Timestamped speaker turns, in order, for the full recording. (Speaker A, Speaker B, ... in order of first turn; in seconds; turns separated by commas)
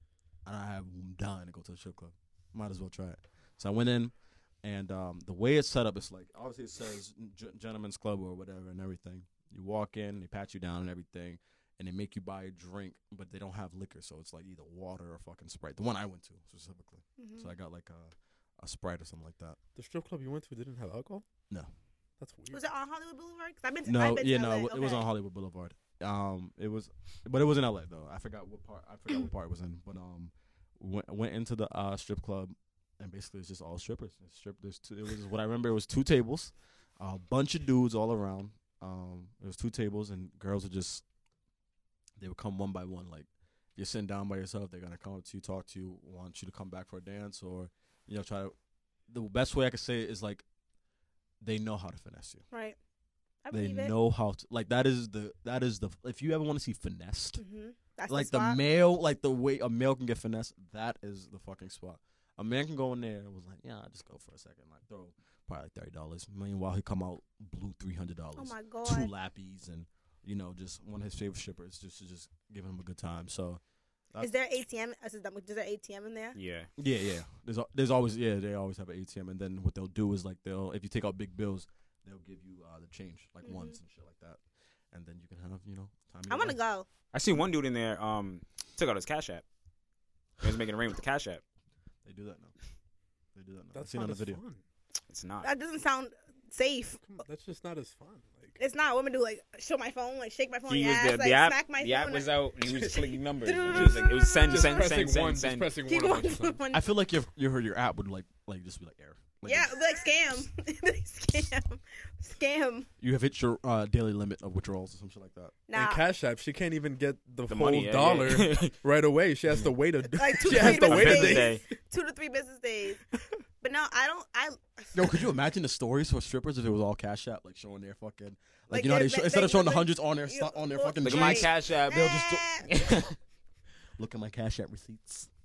Speaker A: 0.4-19.6, Speaker B: 17.2-17.5, Speaker C: 19.8-21.3, Speaker C: 22.2-22.6, Speaker B: 22.5-25.1, Speaker A: 23.9-41.0, Speaker A: 42.2-48.5, Speaker A: 49.1-50.4, Speaker A: 51.4-52.4, Speaker B: 52.5-52.8, Speaker B: 53.4-53.9, Speaker A: 53.5-57.4, Speaker B: 57.4-58.6, Speaker A: 58.1-73.6, Speaker B: 68.3-69.1, Speaker B: 74.2-76.4, Speaker D: 76.3-76.7, Speaker A: 76.8-84.4, Speaker B: 83.4-83.8, Speaker A: 84.9-86.6, Speaker B: 86.3-86.9, Speaker D: 87.1-89.4, Speaker D: 90.4-91.4, Speaker A: 92.0-92.5, Speaker A: 93.3-94.4, Speaker C: 93.7-94.6, Speaker D: 95.1-95.5, Speaker B: 95.4-97.0, Speaker C: 97.0-98.6, Speaker B: 98.6-102.3, Speaker D: 100.7-105.7, Speaker C: 102.7-102.9, Speaker B: 103.4-104.9, Speaker C: 103.7-106.6, Speaker B: 105.8-106.9, Speaker A: 106.7-109.8, Speaker B: 109.4-112.9, Speaker A: 113.0-115.6, Speaker B: 115.7-116.0, Speaker C: 115.7-121.6, Speaker D: 117.5-118.7, Speaker B: 120.0-123.0, Speaker D: 120.5-121.6, Speaker B: 123.6-125.2, Speaker A: 124.9-133.1, Speaker B: 128.7-132.7, Speaker D: 131.0-133.1, Speaker A: 134.0-135.3